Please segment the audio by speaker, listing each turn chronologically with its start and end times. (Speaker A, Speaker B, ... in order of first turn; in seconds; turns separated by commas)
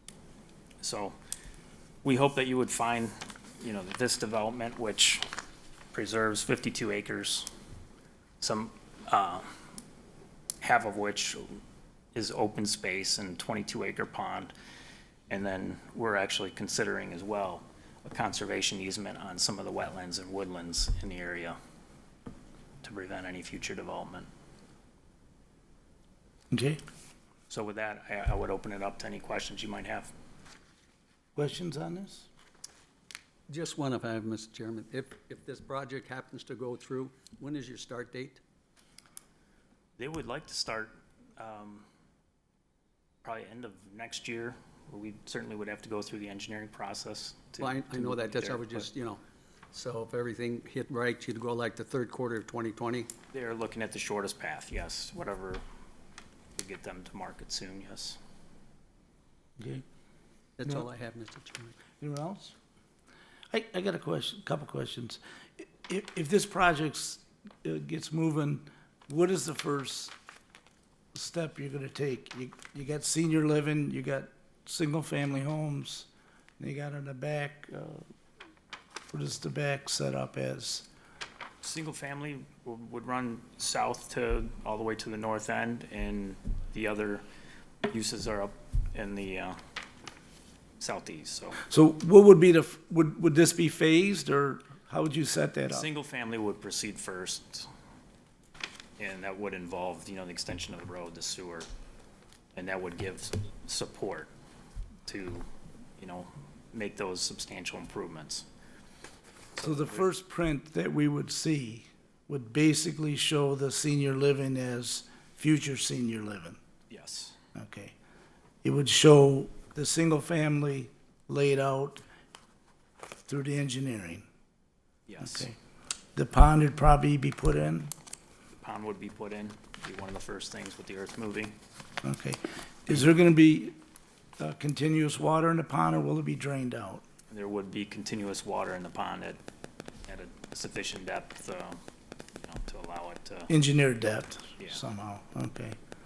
Speaker A: 0.8-1.2, Speaker A: 2.0-5.2, Speaker A: 5.9-7.5, Speaker A: 8.4-9.5, Speaker A: 10.6-11.6, Speaker A: 12.1-14.5, Speaker A: 15.3-21.6, Speaker A: 22.8-24.3, Speaker B: 26.5-26.8, Speaker A: 27.5-30.1, Speaker B: 31.4-32.3, Speaker C: 33.5-38.4, Speaker A: 40.0-41.9, Speaker A: 43.2-48.9, Speaker C: 47.6-49.2, Speaker C: 49.7-53.1, Speaker A: 53.3-55.6, Speaker A: 56.6-58.2, Speaker C: 60.6-61.8, Speaker B: 62.0-62.5, Speaker B: 63.5-70.1, Speaker B: 71.1-78.0, Speaker B: 79.1-80.9, Speaker A: 81.6-87.2, Speaker A: 87.9-89.6, Speaker A: 90.8-91.6, Speaker B: 91.6-95.9, Speaker A: 95.7-97.7, Speaker A: 99.0-101.7, Speaker A: 102.5-104.3, Speaker A: 105.1-105.5, Speaker A: 106.0-108.5, Speaker A: 109.5-110.1, Speaker B: 109.6-116.6, Speaker A: 116.9-117.4, Speaker B: 117.5-118.0, Speaker B: 118.6-122.0, Speaker B: 123.2-124.2, Speaker A: 125.1-125.5, Speaker B: 125.2-125.6, Speaker B: 126.2-127.9, Speaker A: 128.6-131.6, Speaker B: 132.0-133.8, Speaker B: 134.4-137.0, Speaker A: 137.3-139.4, Speaker A: 140.1-141.8, Speaker A: 142.4-143.5, Speaker B: 143.5-145.8